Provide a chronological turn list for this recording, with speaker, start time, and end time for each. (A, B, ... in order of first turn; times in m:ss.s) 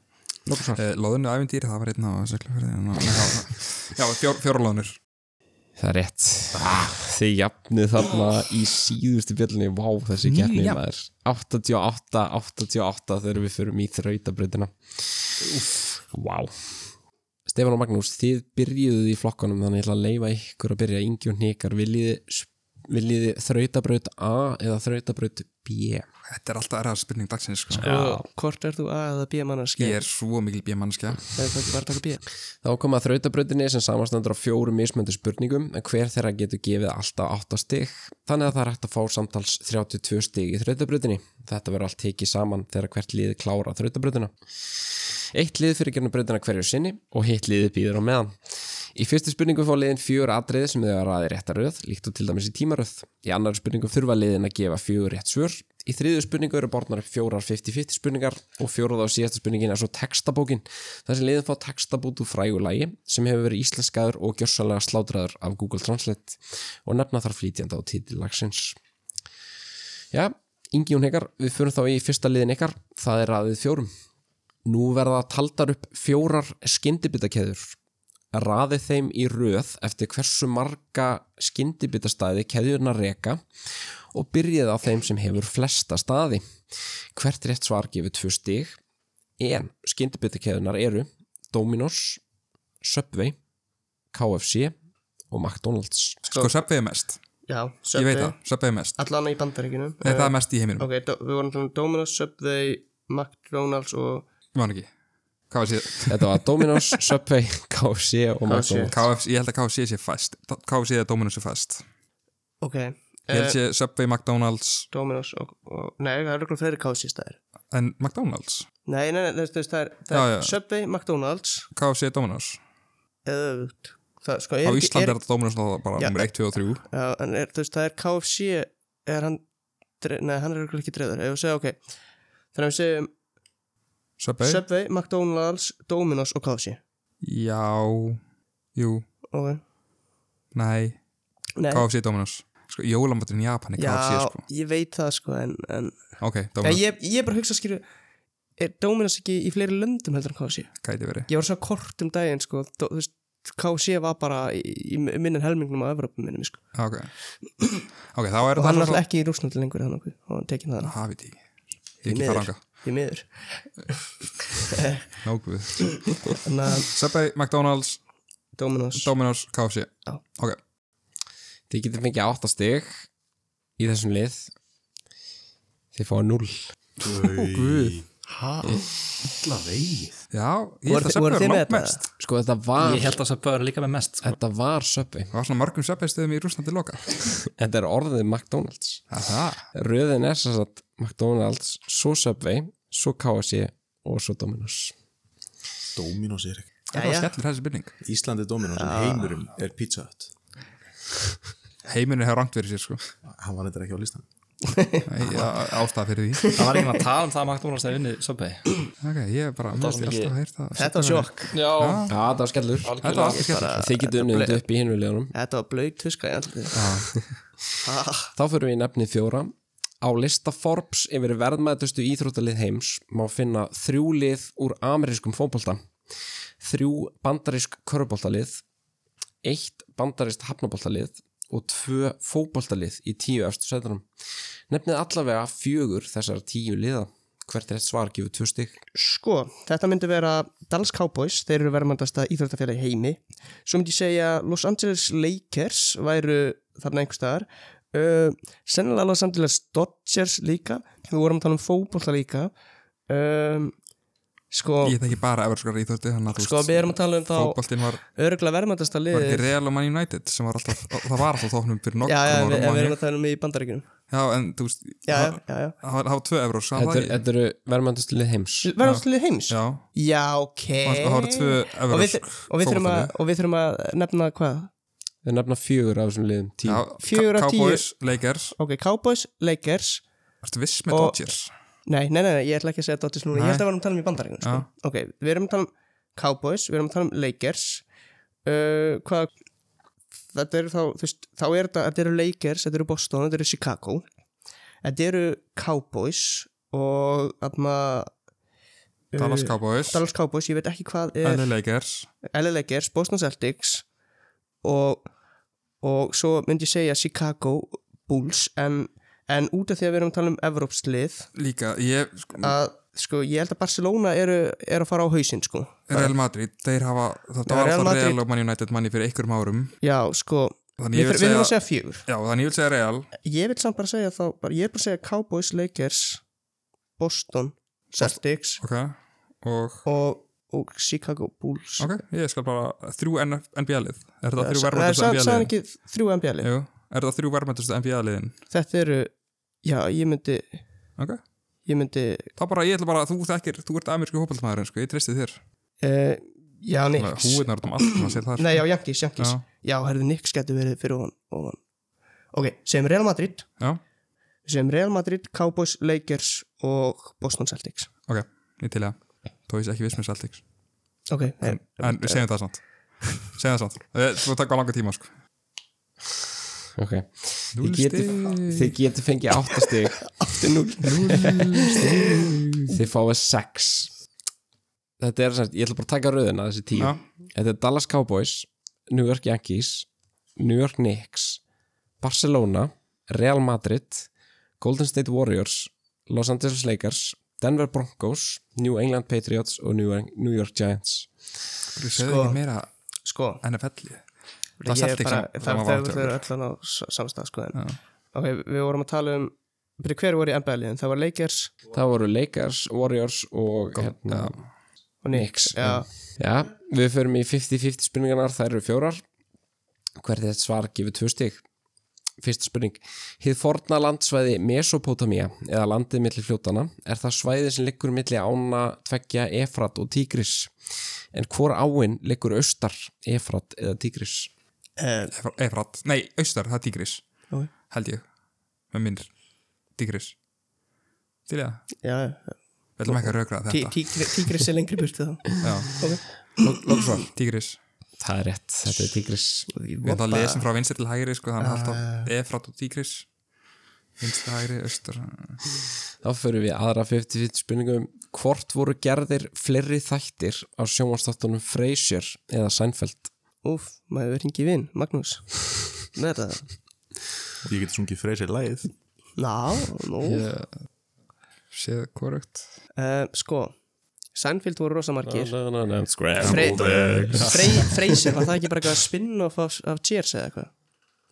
0:00.6-0:05.0 A
0:05.8-0:15.4 B
0:10.3-0:10.8 A
0:16.0-0:16.8 B
0:17.5-0:26.1 B
0:26.3-0:27.8 A
0:27.8-0:28.2 B
0:27.8-0:30.0 C
0:29.8-0:31.3 A
0:31.3-0:32.2 C
0:32.6-0:44.3 B
0:45.3-0:48.3 B
0:48.9-1:08.8 B
1:10.1-1:13.9 B
1:14.7-1:17.8 B
1:18.3-1:23.4 B
1:24.1-1:26.5 B
1:27.1-1:28.8 B
1:29.4-1:32.2 B
1:32.8-1:33.4 B
1:34.1-1:34.8 B
1:35.3-1:36.2 B
1:36.3-1:37.2 A
1:37.5-1:38.4 C
1:38.0-1:39.0 A
1:39.0-1:44.3 C
1:40.0-1:40.9 A
1:44.5-1:44.9 A
1:45.5-1:46.4 A
1:46.1-1:48.9 B
1:48.5-1:49.0 C
1:48.9-1:51.8 A
1:52.6-1:53.6 C
1:53.3-1:54.9 A
1:54.9-1:57.4 C
1:57.7-1:58.7 A
1:58.9-2:01.7 C
2:00.1-2:00.6 A
2:01.7-2:02.6 A
2:03.3-2:05.2 C
2:04.6-2:06.8 A
2:06.0-2:09.4 C
2:10.0-2:11.8 C
2:12.5-2:13.1 C
2:14.2-2:14.6 A
2:14.4-2:16.8 C
2:17.2-2:18.2 A
2:18.8-2:19.0 A
2:19.3-2:19.6 C
2:20.5-2:21.0 A
2:21.6-2:21.9 C
2:21.7-2:24.4 A
2:23.8-2:26.0 C
2:26.2-2:26.8 A
2:26.6-2:27.8 C
2:28.6-2:36.6 C
2:30.8-2:31.3 A
2:36.8-2:37.1 A
2:37.6-2:37.8 C
2:38.1-2:39.0 A
2:38.6-2:41.0 C
2:40.8-2:41.4 A
2:42.0-2:42.8 A
2:42.1-2:43.9 C
2:44.7-2:45.0 C
2:45.2-2:48.0 A
2:45.8-2:46.9 C
2:48.6-2:49.1 C
2:49.0-2:50.6 A
2:51.7-2:53.1 B
2:53.8-2:54.5 B
2:55.9-2:56.7 B
2:57.0-2:58.6 D
2:57.2-2:58.0 A
2:59.2-3:00.2 D
3:00.3-3:02.0 A
3:00.9-3:02.0 C
3:02.2-3:03.2 B
3:02.8-3:04.4 E
3:04.2-3:05.3 B
3:05.3-3:07.3 A
3:07.6-3:09.1 B
3:09.1-3:09.6 A
3:09.7-3:14.9 B
3:16.0-3:16.7 D
3:16.9-3:17.3 C
3:16.9-3:17.9 A
3:18.0-3:20.3 D
3:18.8-3:19.4 C
3:21.8-3:23.0 A
3:23.2-3:24.3 D
3:24.6-3:25.1 C
3:25.1-3:26.6 A
3:26.5-3:28.8 E
3:29.0-3:32.1 A
3:29.7-3:30.4 E
3:30.8-3:31.6 C
3:31.5-3:32.1 E
3:32.1-3:35.3 B
3:32.8-3:33.5 E
3:33.0-3:33.8 A
3:33.2-3:34.6 C
3:35.3-3:37.0 C
3:36.7-3:37.1 A
3:37.8-3:38.3 C
3:38.3-3:45.8 B
3:46.6-3:48.6 B
3:49.4-3:54.0 B
3:54.7-3:58.8 B
3:59.0-4:12.5 C
4:13.1-4:13.7 C
4:14.5-4:15.0 C
4:14.8-4:18.0 A
4:16.3-4:19.5 C
4:19.1-4:23.0 A
4:22.0-4:23.8 C
4:24.1-4:27.2 A
4:25.1-4:25.8 C
4:26.8-4:28.7 B
4:28.6-4:34.7 C
4:28.8-4:29.8 A
4:30.8-4:33.1 A
4:35.2-4:36.9 B
4:36.6-4:38.6 A
4:37.0-4:37.9 C
4:38.6-4:40.0 C
4:40.4-4:41.5 A
4:40.9-4:41.2 C
4:41.9-4:47.8 C
4:43.3-4:43.7 A
4:48.4-4:49.3 C
4:50.3-4:54.0 C
4:54.8-4:58.1 C
4:59.1-5:01.5 C
4:59.2-5:00.0 A
5:01.2-5:02.1 A
5:02.3-5:03.8 C
5:04.6-5:05.1 C
5:05.8-5:11.3 C
5:11.4-5:12.6 A
5:12.4-5:16.1 C
5:15.9-5:19.7 A
5:17.5-5:18.2 C
5:19.8-5:22.0 C
5:20.8-5:21.6 A
5:22.1-5:23.1 A
5:23.2-5:26.2 C
5:27.0-5:28.6 C
5:28.0-5:29.9 A
5:29.8-5:32.0 C
5:31.8-5:35.5 A
5:34.4-5:36.5 C
5:36.4-5:38.4 A
5:38.5-5:39.1 C
5:39.6-5:40.6 C
5:41.7-5:42.3 C
5:42.4-5:45.4 A
5:45.8-5:51.6 C
5:47.0-5:49.4 A
5:52.3-5:53.5 C
5:54.5-5:57.9 C
5:58.1-6:00.4 A
6:01.1-6:02.6 C
6:01.4-6:05.1 A
6:06.8-6:10.5 B
6:07.6-6:08.8 A
6:10.2-6:12.0 C
6:10.8-6:12.6 A
6:11.7-6:12.1 B
6:12.7-6:13.9 B
6:15.0-6:21.4 B
6:22.0-6:31.1 B
6:31.7-6:32.7 A
6:32.0-6:32.4 C
6:33.0-6:33.4 C
6:33.4-6:34.0 A
6:34.6-6:41.5 C
6:34.7-6:36.2 A
6:41.7-6:44.4 B
6:43.7-6:44.5 A
6:45.0-6:45.9 C
6:45.1-6:49.0 B
6:50.0-6:51.4 B
6:52.2-7:00.5 B
7:01.1-7:04.3 B
7:04.8-7:05.1 C
7:05.1-7:08.1 A
7:08.7-7:09.1 A
7:09.7-7:10.2 A
7:11.3-7:11.7 A
7:11.8-7:16.7 C
7:12.8-7:13.8 A
7:15.4-7:17.6 A
7:18.0-7:19.5 B
7:19.5-7:20.5 C
7:19.8-7:23.1 A
7:21.4-7:22.1 C
7:24.0-7:25.4 A
7:26.0-7:33.1 B
7:33.4-7:36.5 C
7:37.4-7:38.7 D
7:39.2-7:40.3 C
7:40.0-7:40.6 A
7:41.5-7:42.4 A
7:42.8-7:43.5 C
7:44.1-7:45.3 C
7:45.0-7:48.0 B
7:46.2-7:46.6 A
7:46.2-7:50.5 C
7:46.3-7:47.3 D